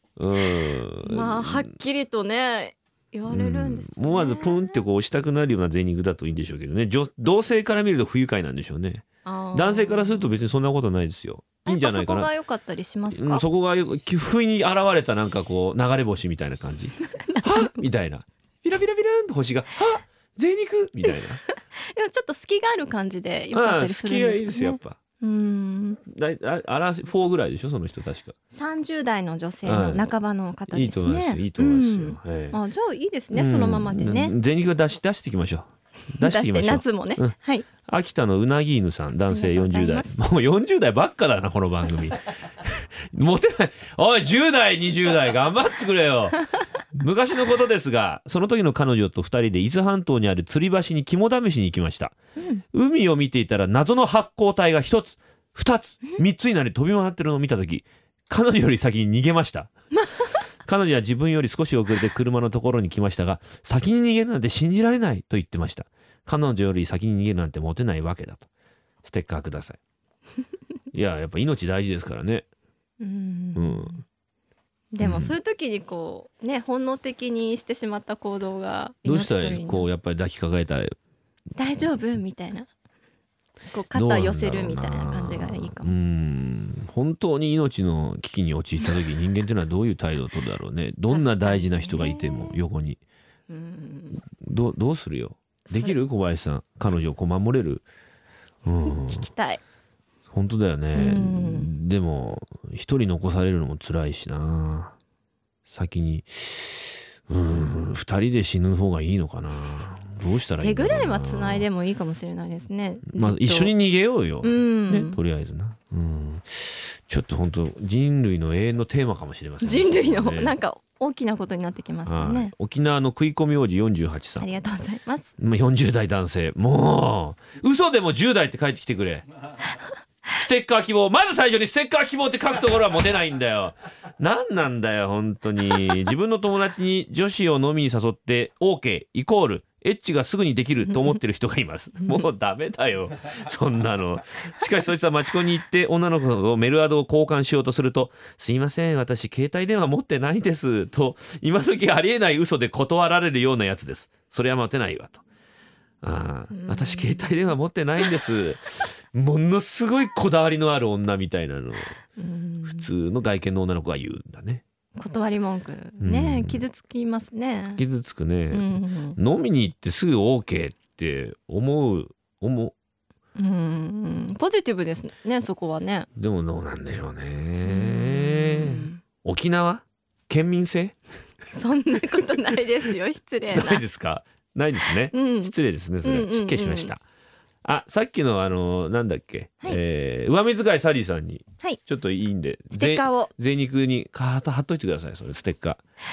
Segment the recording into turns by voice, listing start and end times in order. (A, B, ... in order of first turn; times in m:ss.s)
0:00.2-0:01.7 A
0:01.1-0:04.8 B
0:03.3-0:12.3 A
0:09.2-0:10.2 B
0:11.7-0:13.5 B
0:13.1-0:21.4 A
0:17.2-0:17.7 B
0:21.8-0:26.0 B
0:23.5-0:25.0 A
0:26.1-0:28.4 A
0:28.5-0:34.4 B
0:29.6-0:30.1 A
0:30.7-0:32.6 A
0:33.3-0:52.2 A
0:36.2-0:37.7 B
0:39.3-0:40.1 B
0:52.7-0:59.7 A
1:00.6-1:08.5 A
1:09.0-1:09.8 A
1:10.9-1:12.5 A
1:13.0-1:14.0 B
1:13.6-1:14.0 A
1:14.9-1:19.9 B
1:15.0-1:15.3 A
1:19.0-1:21.0 A
1:21.6-1:22.7 B
1:23.7-1:25.9 B
1:23.9-1:33.0 A
1:31.1-1:32.6 B
1:33.5-1:34.2 B
1:34.3-1:37.8 A
1:35.7-1:36.0 B
1:38.6-1:39.3 A
1:38.9-1:39.6 B
1:40.3-1:45.0 A
1:40.9-1:41.7 B
1:45.7-1:51.7 A
1:50.6-1:53.7 B
1:53.1-2:00.5 A
1:54.4-1:55.2 B
1:59.6-2:02.5 B
2:02.1-2:04.5 A
2:04.4-2:05.3 B
2:05.4-2:09.3 A
2:10.3-2:35.2 A
2:36.0-2:42.0 A
2:36.5-2:37.3 B
2:42.2-2:42.9 B
2:42.7-2:44.6 A
2:45.0-2:47.8 B
2:46.0-2:46.6 A
2:47.8-2:52.8 A
2:48.5-2:49.2 B
2:53.4-2:56.1 B
2:56.2-3:01.0 A
2:57.6-2:59.0 B
3:01.5-3:03.8 B
3:03.5-3:07.0 A
3:05.1-3:06.9 B
3:07.6-3:15.8 A
3:12.8-3:13.3 B